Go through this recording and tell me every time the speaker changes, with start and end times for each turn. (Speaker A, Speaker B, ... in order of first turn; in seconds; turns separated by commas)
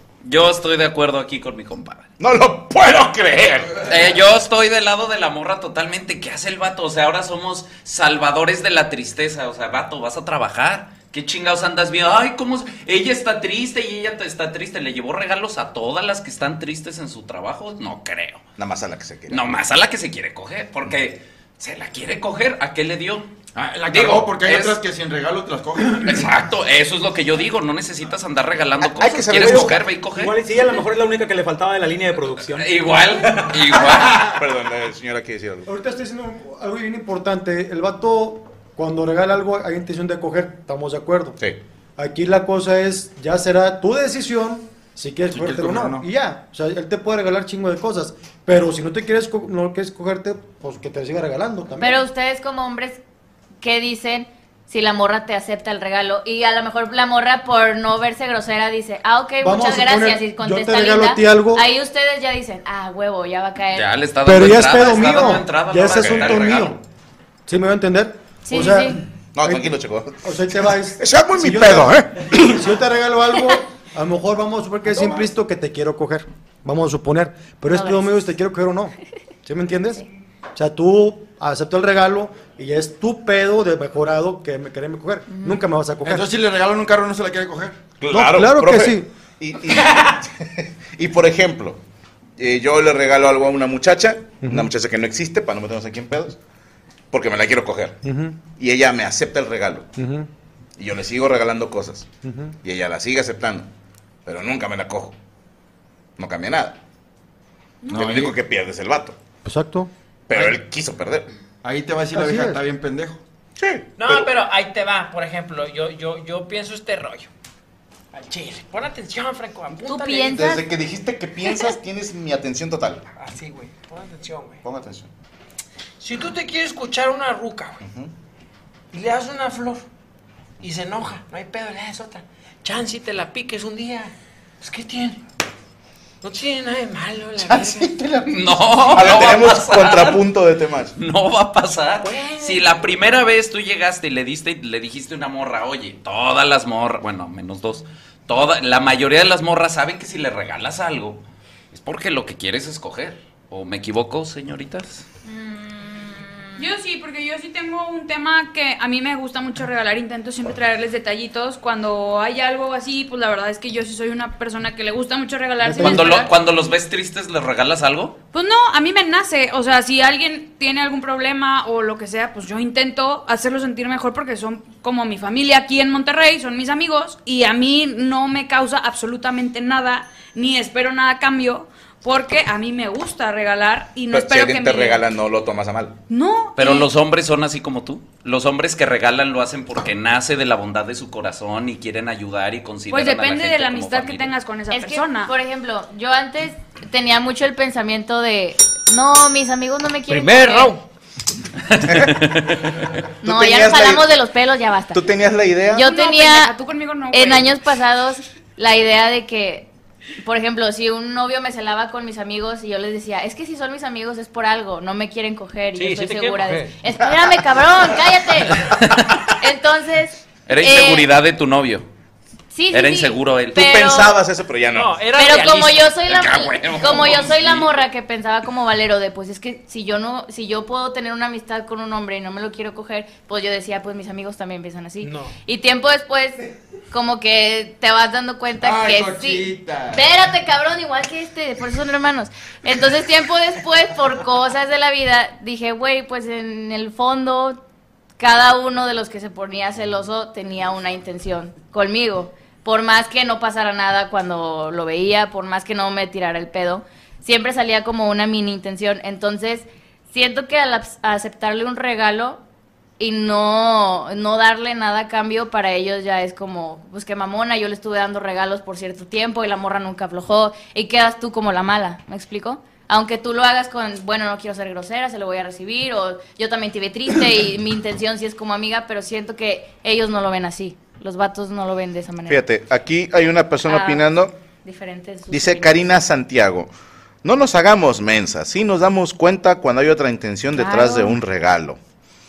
Speaker A: 0.2-2.1, Speaker B: 2.2-3.9, Speaker A: 3.8-18.4, Speaker B: 18.6-19.5, Speaker A: 19.3-23.3, Speaker C: 23.6-26.2, Speaker A: 23.9-24.8, Speaker A: 25.9-30.4, Speaker B: 28.8-29.8, Speaker D: 29.3-34.3, Speaker A: 32.5-34.3, Speaker B: 34.2-35.7, Speaker E: 35.7-41.4, Speaker E: 42.0-52.0, Speaker C: 45.3-46.1, Speaker F: 51.8-53.0, Speaker F: 53.6-63.9, Speaker E: 59.4-61.7, Speaker A: 63.7-66.8, Speaker E: 64.2-66.8, Speaker B: 66.0-66.4, Speaker E: 67.5-86.3, Speaker F: 68.5-69.0, Speaker B: 69.3-72.6, Speaker F: 77.7-78.2, Speaker F: 85.3-85.6, Speaker C: 86.0-87.8, Speaker B: 88.0-91.8, Speaker E: 88.1-89.1, Speaker B: 92.4-96.4, Speaker E: 94.4-94.7, Speaker B: 97.1-98.0, Speaker E: 98.0-98.4, Speaker B: 98.6-99.9, Speaker E: 100.0-100.3, Speaker B: 100.8-102.1, Speaker E: 102.2-102.5, Speaker B: 102.6-103.7, Speaker B: 104.3-105.2, Speaker B: 106.2-106.8, Speaker C: 107.9-108.4, Speaker B: 107.9-109.2, Speaker E: 109.4-109.9, Speaker B: 110.3-111.3, Speaker C: 111.6-113.2, Speaker E: 112.1-112.6, Speaker B: 113.6-114.3, Speaker G: 114.0-117.3, Speaker G: 118.1-120.5, Speaker F: 119.9-120.7, Speaker B: 120.3-123.0, Speaker G: 123.2-124.6, Speaker B: 124.6-125.1, Speaker G: 126.0-127.8, Speaker B: 127.8-128.1, Speaker G: 128.9-129.8, Speaker G: 130.6-135.2, Speaker G: 136.2-137.9, Speaker B: 137.4-140.9, Speaker A: 138.3-140.3, Speaker A: 141.0-155.1, Speaker G: 142.0-142.7, Speaker H: 156.6-166.3, Speaker E: 165.6-166.2, Speaker A: 165.8-168.2, Speaker H: 168.3-185.0, Speaker B: 184.1-186.0, Speaker H: 186.1-186.9, Speaker A: 186.6-194.3, Speaker H: 192.9-195.3, Speaker F: 194.7-200.7, Speaker G: 200.1-200.8, Speaker A: 201.8-202.6, Speaker B: 201.9-202.3, Speaker B: 203.2-204.1, Speaker F: 203.2-205.0, Speaker B: 204.9-205.9, Speaker F: 205.7-206.5, Speaker H: 205.8-207.6, Speaker F: 207.1-209.7, Speaker F: 210.2-218.8, Speaker G: 215.8-216.8, Speaker A: 218.6-219.3, Speaker F: 219.4-221.1, Speaker A: 220.5-221.9, Speaker F: 222.5-224.2, Speaker A: 222.7-223.6, Speaker B: 223.5-225.0, Speaker G: 224.7-225.9, Speaker F: 225.2-247.6, Speaker A: 226.1-227.7, Speaker G: 235.0-235.4, Speaker C: 238.6-240.1, Speaker F: 248.2-262.4, Speaker F: 263.0-282.4, Speaker B: 282.3-284.3, Speaker F: 283.6-284.1, Speaker F: 284.6-285.9, Speaker B: 285.3-286.7, Speaker B: 287.2-291.8, Speaker F: 290.5-291.2